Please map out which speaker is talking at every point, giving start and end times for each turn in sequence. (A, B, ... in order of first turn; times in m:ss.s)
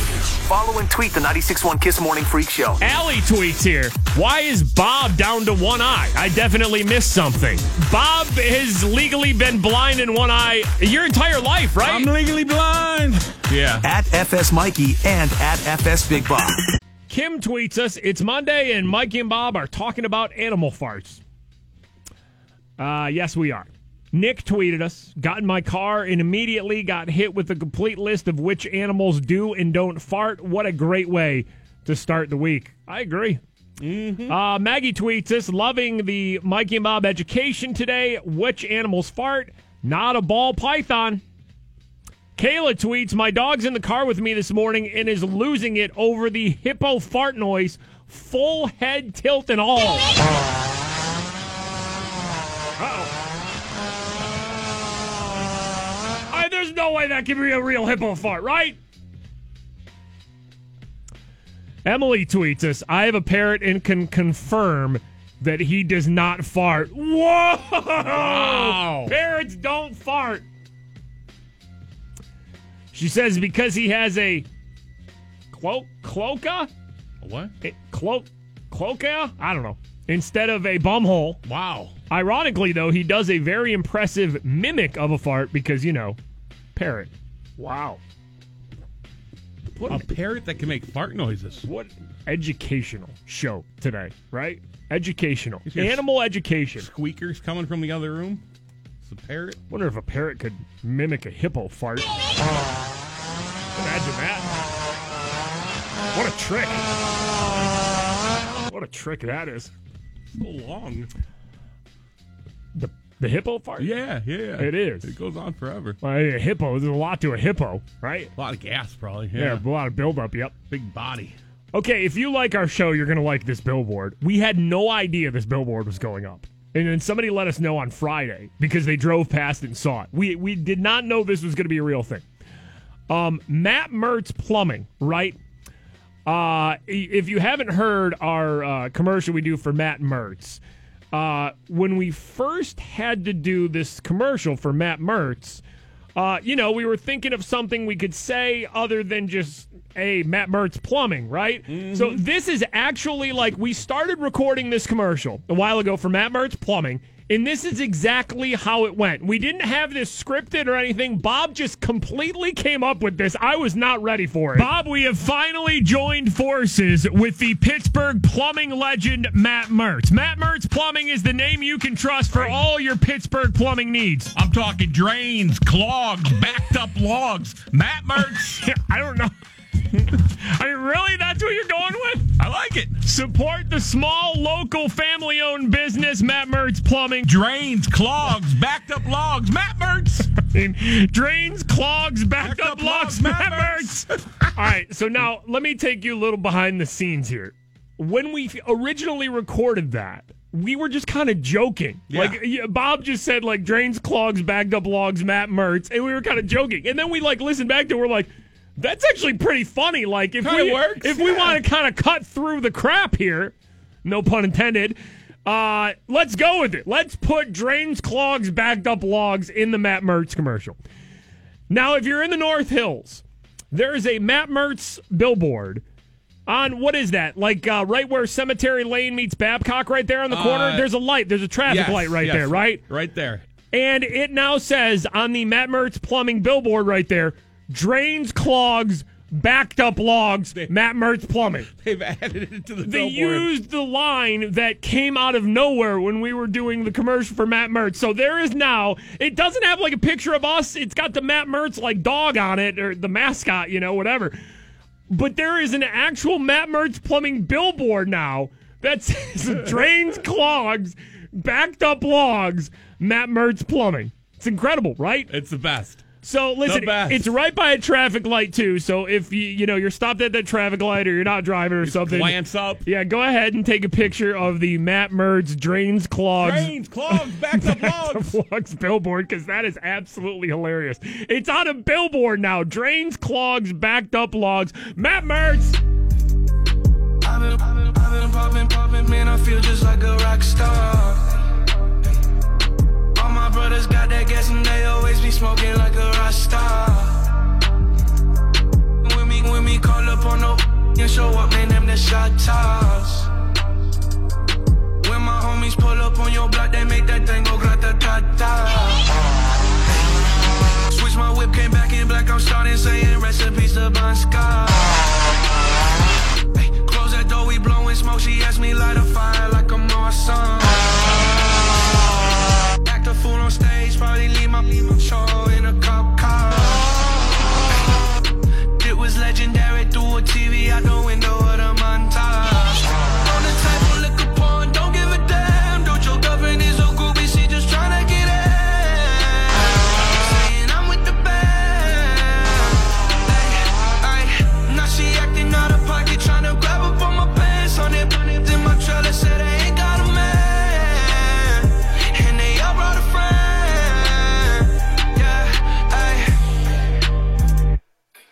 0:00.4-0:02.8 A
0:02.8-0:12.1 B
0:11.8-0:13.8 C
0:13.8-0:16.6 A
0:17.1-0:21.2 B
0:22.8-0:33.4 B
0:33.8-0:34.4 C
0:34.3-0:41.2 B
0:42.4-0:50.1 B
0:52.8-0:53.1 B
0:56.3-0:58.8 B
1:01.8-1:10.4 B
1:08.1-1:09.1 C
1:12.9-1:14.5 B
1:15.5-1:16.7 B
1:17.2-1:17.5 C
1:17.6-1:21.4 B
1:21.4-1:22.0 C
1:22.1-1:26.2 B
1:26.8-1:28.0 B
1:29.8-1:30.1 B
1:29.8-1:31.7 C
1:31.6-1:36.9 B
1:35.6-1:36.0 C
1:36.8-1:38.4 C
1:39.0-1:39.6 C
1:39.7-1:42.1 B
1:43.8-1:44.5 B
1:46.1-1:46.8 B
1:48.7-1:49.7 B
1:50.3-1:51.1 C
1:52.8-1:53.9 B
1:53.8-1:56.0 C
1:54.6-1:55.2 B
1:56.0-1:58.3 B
1:58.4-1:59.6 C
1:59.3-2:00.6 B
2:00.7-2:01.4 C
2:01.7-2:12.2 B
2:13.1-2:15.4 B
2:16.3-2:20.6 B
2:21.1-2:25.6 B
2:26.2-2:54.3 B
2:31.7-2:32.2 C
2:52.3-2:52.6 C
2:54.4-2:58.6 C
2:58.2-2:59.3 B
3:00.1-3:02.3 B
3:02.4-3:03.0 C
3:03.0-3:07.3 B
3:07.2-3:10.3 C
3:10.5-3:40.8 B
3:12.4-3:14.5 C
3:22.1-3:22.4 C
3:30.4-3:31.6 C
3:41.7-3:45.8 B
3:46.5-3:52.8 B
3:50.3-3:50.9 C
3:51.6-3:53.4 C
3:53.7-4:01.7 B
4:01.7-4:03.5 C
4:02.8-4:14.4 B
4:15.1-4:25.3 B
4:25.3-4:27.3 C
4:26.2-4:45.8 B
4:31.8-4:32.8 C
4:36.4-4:38.4 C
4:47.2-4:51.3 D
4:53.2-4:57.3 D
4:59.0-5:03.3 D
5:05.0-5:09.0 D
5:10.9-5:15.0 D
5:16.6-5:21.1 D
5:22.8-5:26.9 D
5:28.8-5:56.4 D